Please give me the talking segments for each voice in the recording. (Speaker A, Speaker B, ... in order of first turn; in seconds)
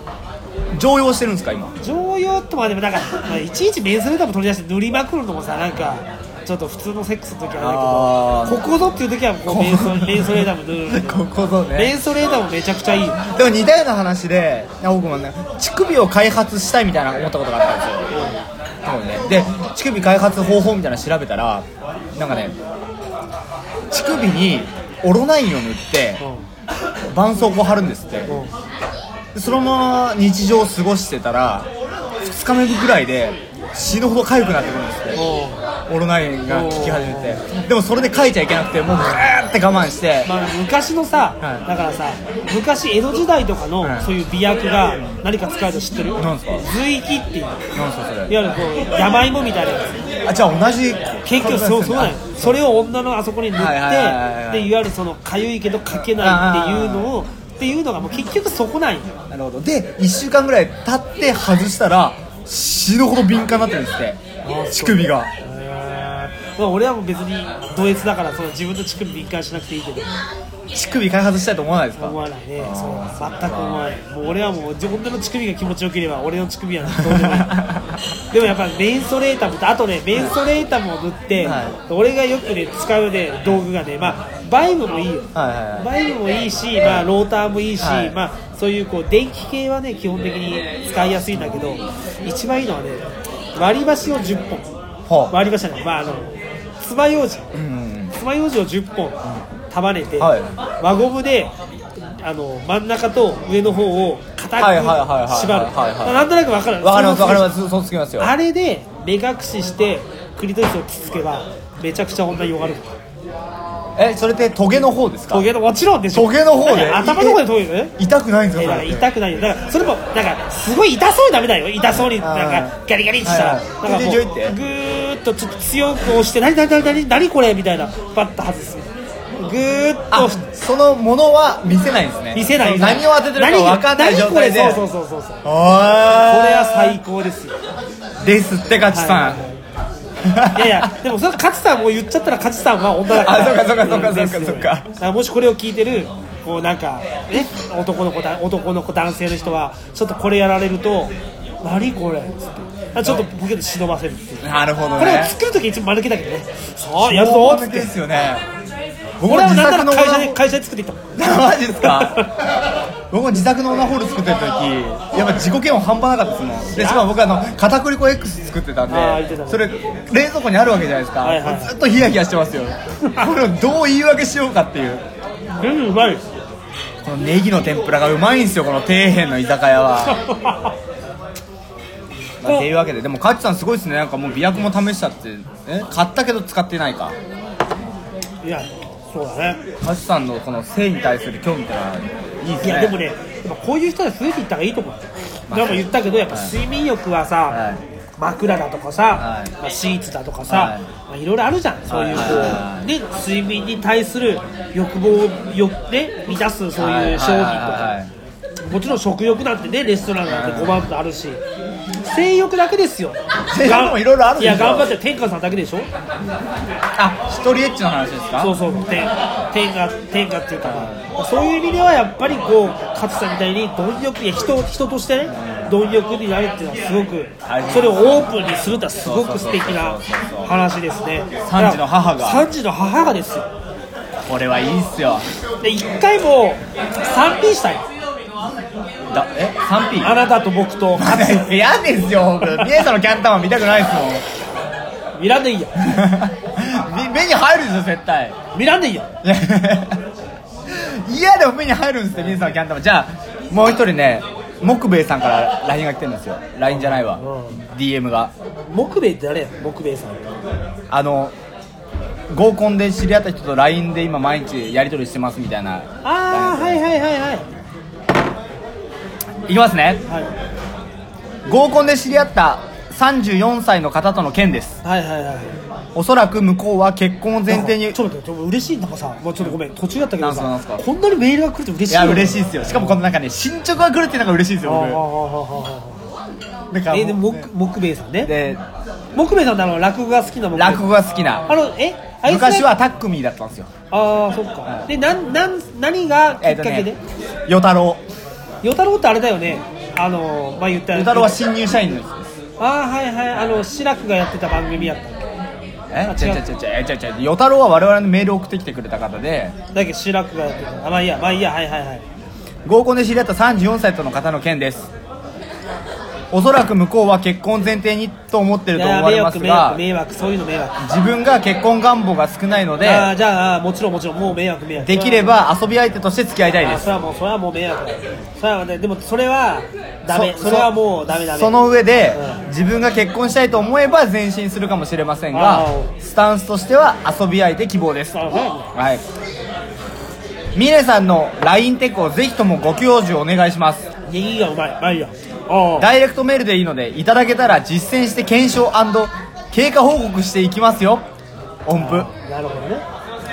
Speaker A: 0.7-1.7, 7.6-8.6, 9.5-11.9, 13.2-18.1, 18.8-22.6, 23.9-26.2, 27.1-28.3, 29.3-31.7, 32.2-35.2, 35.9-40.3, 43.8-44.1, 46.2-46.7, 47.7-48.4, 50.2-52.6, 53.5-54.7, 56.1-57.1, 59.3-65.3, 70.7-73.8, 77.0-78.0, 81.4-81.8, 85.3-85.9, 87.8-88.1, 95.1-95.3, 97.5-98.1, 100.2-100.5, 104.6-106.2, 106.8-108.3, 114.0-115.5, 116.1-117.4, 118.0-119.1, 122.0-124.6, 130.1-134.8, 135.4-137.0, 138.2-139.4, 140.2-140.9, 143.1-144.9, 154.4-155.3, 157.0-158.4, 159.2-160.4, 161.2-162.3, 163.1-175.0, 177.0-180.2, 182.4-187.2, 189.8-193.0, 195.5-196.5, 197.5-197.8, 199.2-199.5, 200.5-200.8, 201.9-202.9, 206.8-208.1, 210.3-210.8, 213.5-214.9, 217.0-218.6, 220.6-221.0, 225.3-225.7, 227.4-228.3, 229.0-230.5, 231.4-232.5, 234.2-235.2, 239.1-240.2, 240.9-244.2, 245.8-248.4, 249.2-250.0, 250.7-258.3, 260.9-261.3, 262.3-266.8, 269.5-270.0, 271.4-274.8, 275.9-278.0, 280.2-280.8, 281.9-285.0, 286.7-287.5, 288.2-288.6, 290.5-291.5, 292.2-293.7, 296.4-296.9, 297.5-298.0, 300.9-302.3, 305.9-309.6, 312.6-314.9, 316.3-319.8, 320.8-323.1, 324.8-326.9, 330.1-330.7, 331.3-339.0, 340.5-343.9, 345.8-351.1, 351.6-352.1
Speaker B: 1.8-13.2, 18.1-18.4, 28.3-28.5, 35.1-35.6, 36.5-37.4, 40.2-47.6, 48.3-50.0, 51.2-59.1, 64.4-70.1, 72.0-77.6, 78.3-93.0, 93.5-94.7, 95.3-97.5, 98.2-107.5, 108.2-112.9, 115.3-117.9, 118.5-128.9, 129.4-130.4, 132.3-135.4, 136.2-137.5, 138.9-139.5, 140.5-157.9, 159.2-161.0, 161.8-162.3, 166.7-167.0, 168.9-169.6, 171.2-171.8, 175.6-176.2, 180.1-180.7, 188.4-189.6, 192.6-197.6, 198.2-207.9, 208.6-211.4, 212.0-215.9, 218.4-233.5, 235.6-237.8, 240.0-241.5, 245.2-245.8, 248.5-249.1, 256.7-257.6, 258.7-260.2, 266.0-267.5, 274.8-275.5, 277.5-283.0, 284.6-286.0, 286.9-288.3, 289.1-290.9, 291.5-292.7, 293.9-297.0, 298.6-301.4, 302.6-305.3, 306.1-306.4, 309.7-312.0, 318.7-320.9, 322.8-325.4, 326.6-332.4, 335.3-335.9, 338.1-338.7, 344.1-345.9, 351.7-352.8